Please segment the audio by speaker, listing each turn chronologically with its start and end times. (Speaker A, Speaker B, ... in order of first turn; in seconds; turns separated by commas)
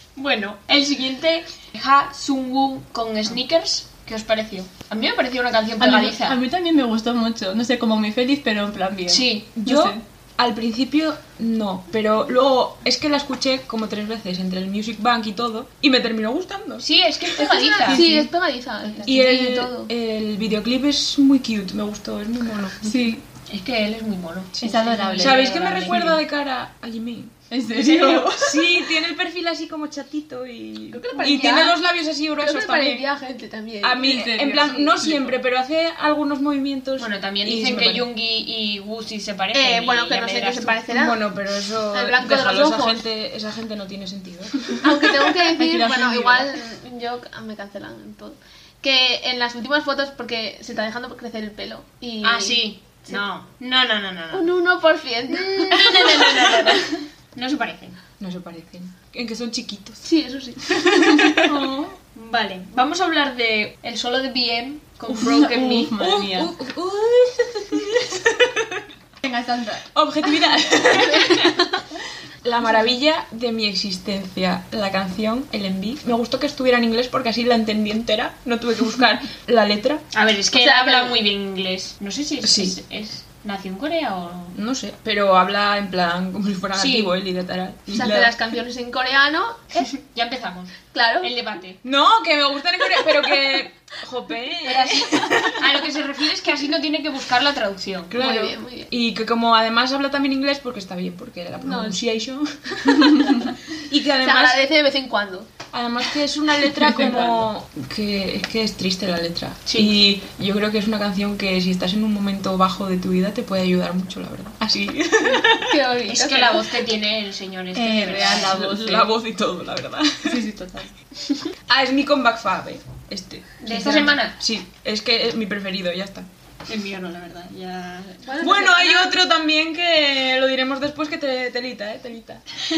Speaker A: 0.1-6.4, Speaker B: 5.8-10.0, Speaker A: 9.1-9.5, Speaker C: 9.6-16.8, Speaker A: 16.8-18.1, Speaker D: 17.4-19.9, Speaker B: 17.9-18.3, Speaker B: 18.8-19.1, Speaker C: 19.0-22.9, Speaker B: 22.8-23.2, Speaker A: 23.5-26.0, Speaker B: 24.6-26.2, Speaker C: 25.2-33.0, Speaker B: 27.5-28.7, Speaker A: 27.8-28.2, Speaker D: 30.9-31.8, Speaker D: 32.4-34.0, Speaker C: 33.8-38.0, Speaker B: 34.0-35.3, Speaker A: 37.0-40.8, Speaker D: 39.5-41.2, Speaker C: 40.9-44.8, Speaker D: 41.8-43.0, Speaker D: 44.8-53.2, Speaker B: 45.6-46.5, Speaker A: 52.2-54.5, Speaker D: 54.3-56.9, Speaker A: 55.3-58.0, Speaker C: 58.2-60.0, Speaker D: 60.0-61.4, Speaker C: 60.7-61.6, Speaker B: 61.0-61.9, Speaker A: 62.1-65.9, Speaker B: 65.1-66.5, Speaker C: 65.9-68.8, Speaker B: 69.2-69.9, Speaker C: 69.9-71.7, Speaker C: 72.4-80.0, Speaker A: 80.1-84.5, Speaker D: 80.5-81.2, Speaker C: 82.4-82.7, Speaker C: 84.5-88.3, Speaker A: 86.7-87.1, Speaker D: 87.9-89.9, Speaker A: 89.8-91.8, Speaker D: 90.9-91.3, Speaker C: 91.8-95.8, Speaker D: 94.7-95.4, Speaker A: 95.6-98.1, Speaker C: 98.1-104.6, Speaker D: 98.2-98.9, Speaker D: 101.6-102.0, Speaker B: 103.1-103.5, Speaker D: 104.2-105.5, Speaker C: 105.7-115.7, Speaker D: 107.0-107.4, Speaker A: 109.7-109.9, Speaker D: 115.3-116.8, Speaker A: 116.0-118.6, Speaker B: 117.7-119.1, Speaker C: 118.2-120.4, Speaker B: 120.2-120.9, Speaker C: 121.7-126.3, Speaker A: 123.6-124.3, Speaker A: 126.7-128.3, Speaker D: 128.2-129.1, Speaker C: 128.4-132.4